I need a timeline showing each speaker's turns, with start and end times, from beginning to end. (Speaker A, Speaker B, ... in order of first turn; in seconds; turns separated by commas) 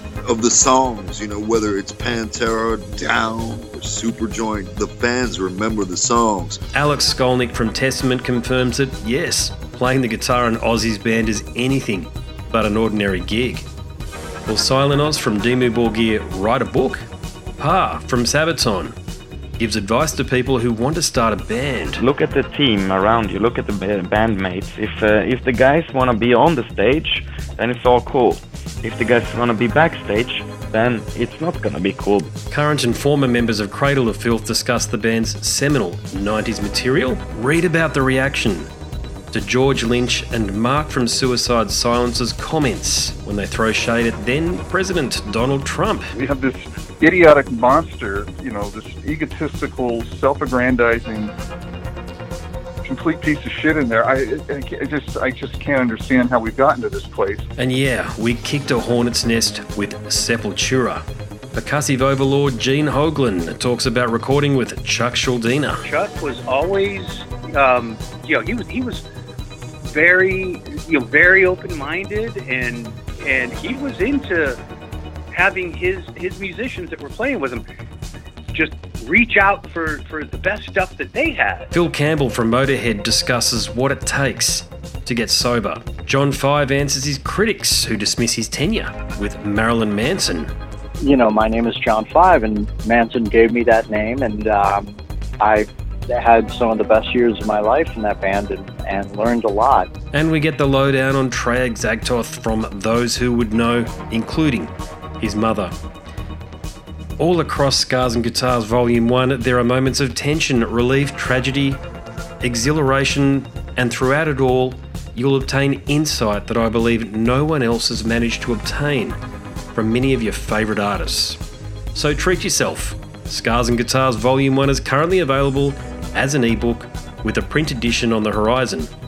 Speaker A: 0.2-6.6, Speaker B: 6.7-13.7, Speaker B: 14.4-17.1, Speaker B: 17.6-18.9, Speaker B: 19.6-22.0, Speaker C: 22.0-32.3, Speaker B: 32.5-38.7, Speaker B: 39.3-46.1, Speaker D: 46.1-51.3, Speaker D: 52.8-57.5, Speaker B: 57.6-61.0, Speaker B: 61.5-65.8, Speaker E: 65.8-69.0, Speaker E: 69.9-74.6, Speaker E: 75.3-77.6, Speaker E: 78.5-81.7, Speaker B: 81.7-90.5, Speaker F: 91.0-99.9, Speaker B: 100.1-105.7, Speaker B: 107.2-111.8, Speaker B: 112.4-119.2, Speaker B: 119.7-121.4, Speaker B: 121.9-128.9